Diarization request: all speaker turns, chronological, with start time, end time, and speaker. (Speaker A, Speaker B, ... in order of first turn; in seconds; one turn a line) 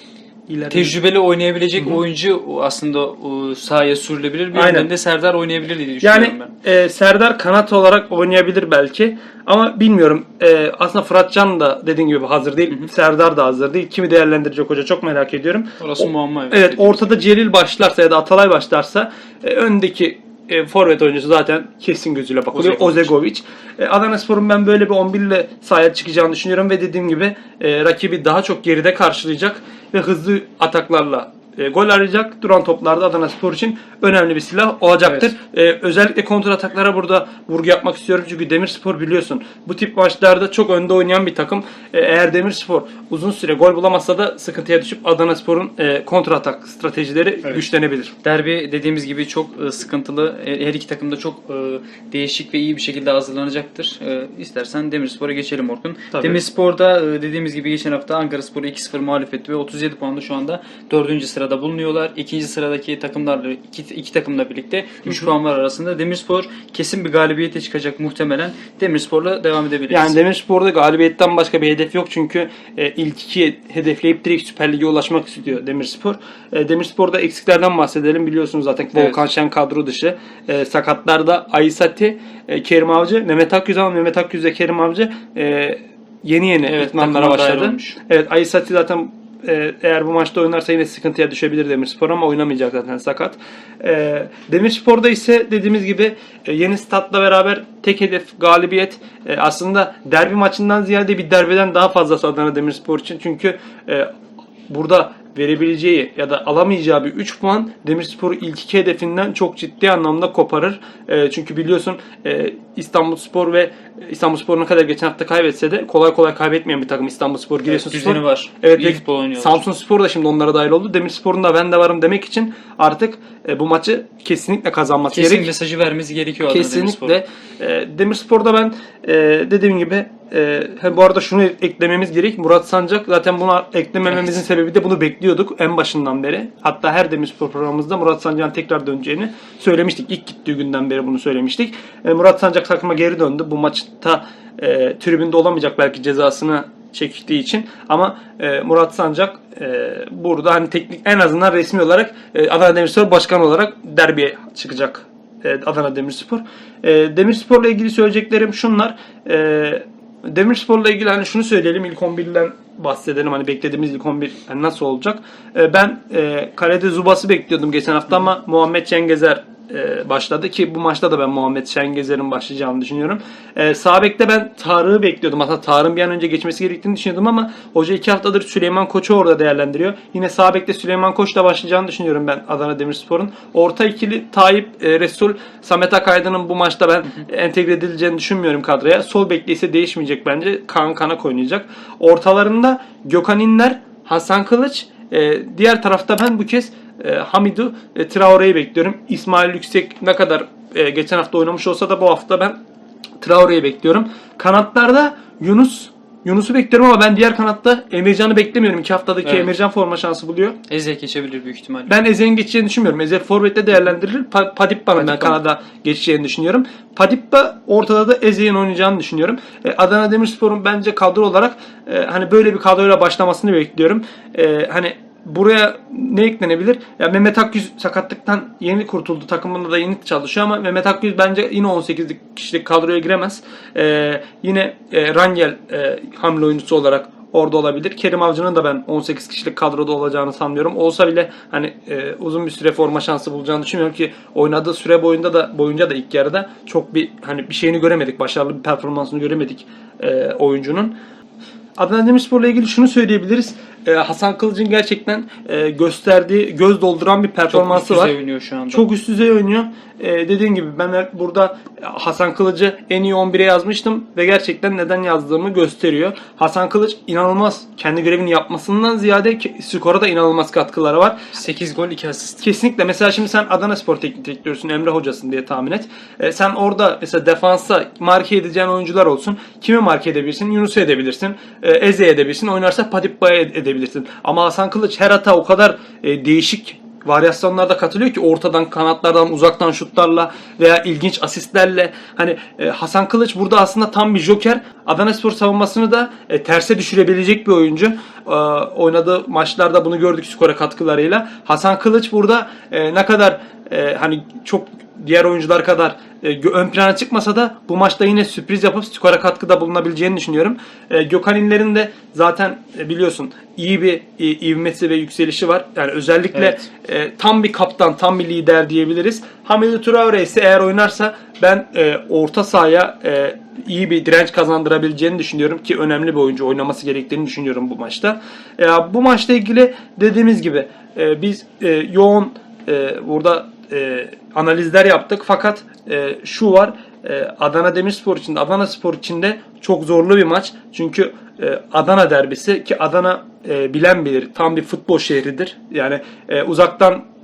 Speaker A: 0.5-1.0
Speaker B: 0.7-6.5
Speaker A: 4.5-4.9
Speaker A: 6.0-48.1
Speaker B: 15.8-17.0
Speaker B: 22.5-23.1
Speaker B: 35.0-35.3
Speaker B: 48.2-70.2
Speaker A: 56.1-56.4
Speaker A: 65.0-65.3
Speaker A: 69.9-104.1
Speaker B: 86.6-88.0
Speaker A: 104.7-125.5
Speaker B: 117.7-119.6
Speaker B: 125.1-127.2
Speaker A: 126.4-202.6
Speaker B: 134.1-134.4
Speaker A: 203.2-210.6
Speaker B: 209.2-209.5
Speaker B: 210.7-211.9
Speaker A: 211.9-250.9
Speaker B: 215.0-215.4
Speaker A: 251.8-258.1
Speaker B: 257.5-258.9
Speaker A: 258.7-271.2
Speaker B: 271.3-272.4
Speaker A: 272.4-347.1
Speaker B: 316.3-316.6